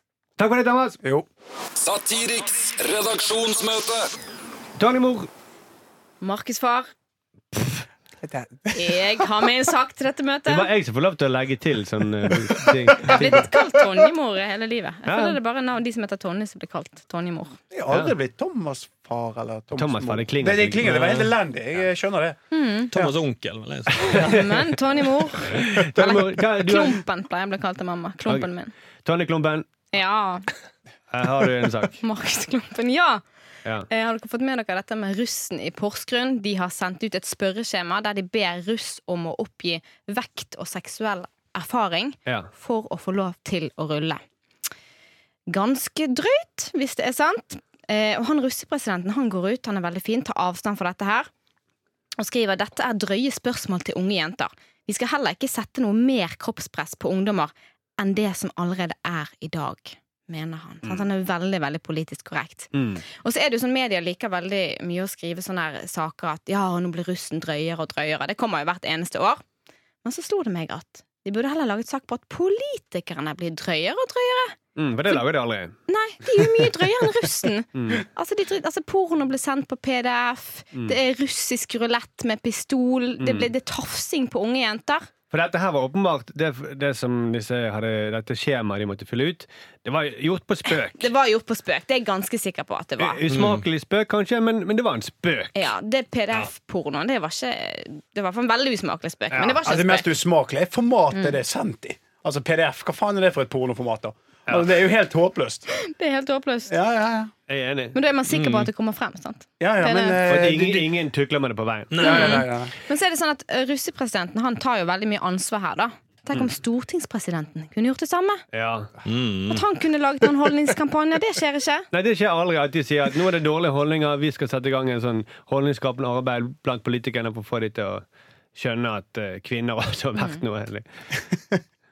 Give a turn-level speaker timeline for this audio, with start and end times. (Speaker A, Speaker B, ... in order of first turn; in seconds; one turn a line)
Speaker A: 0.4-1.0
Speaker B: 1.8-4.1
Speaker A: 4.8-5.3
Speaker C: 6.2-6.9
Speaker D: 8.2-9.5
Speaker C: 8.7-10.7
Speaker A: 10.5-13.5
Speaker D: 12.3-14.1
Speaker C: 13.0-17.6
Speaker A: 15.1-15.4
Speaker D: 17.7-22.4
Speaker A: 19.8-21.0
Speaker E: 20.8-21.3
Speaker C: 22.5-22.9
Speaker E: 22.9-24.4
Speaker A: 24.0-24.7
Speaker C: 24.0-28.7
Speaker A: 25.5-27.0
Speaker A: 29.1-29.7
Speaker C: 29.9-30.5
Speaker A: 31.1-32.0
Speaker C: 32.0-33.2
Speaker C: 33.9-44.2
Speaker C: 45.5-51.3
Speaker C: 52.2-69.4
Speaker A: 62.7-63.0
Speaker C: 70.0-74.6
Speaker A: 74.8-75.8
Speaker C: 75.9-85.1
Speaker A: 77.8-78.0
Speaker A: 83.2-83.5
Speaker A: 85.3-91.1
Speaker C: 91.0-93.2
Speaker A: 93.0-95.7
Speaker E: 93.3-93.6
Speaker C: 95.5-100.1
Speaker A: 99.3-99.6
Speaker D: 99.6-105.7
Speaker C: 105.7-106.7
Speaker D: 106.7-107.3
Speaker A: 107.5-108.0
Speaker C: 107.9-110.2
Speaker E: 108.3-108.7
Speaker D: 109.6-110.9
Speaker A: 110.3-112.0
Speaker E: 111.9-112.5
Speaker D: 112.0-112.7
Speaker C: 112.0-118.4
Speaker A: 118.5-118.9
Speaker E: 119.0-119.6
Speaker C: 119.5-121.9
Speaker A: 121.9-130.8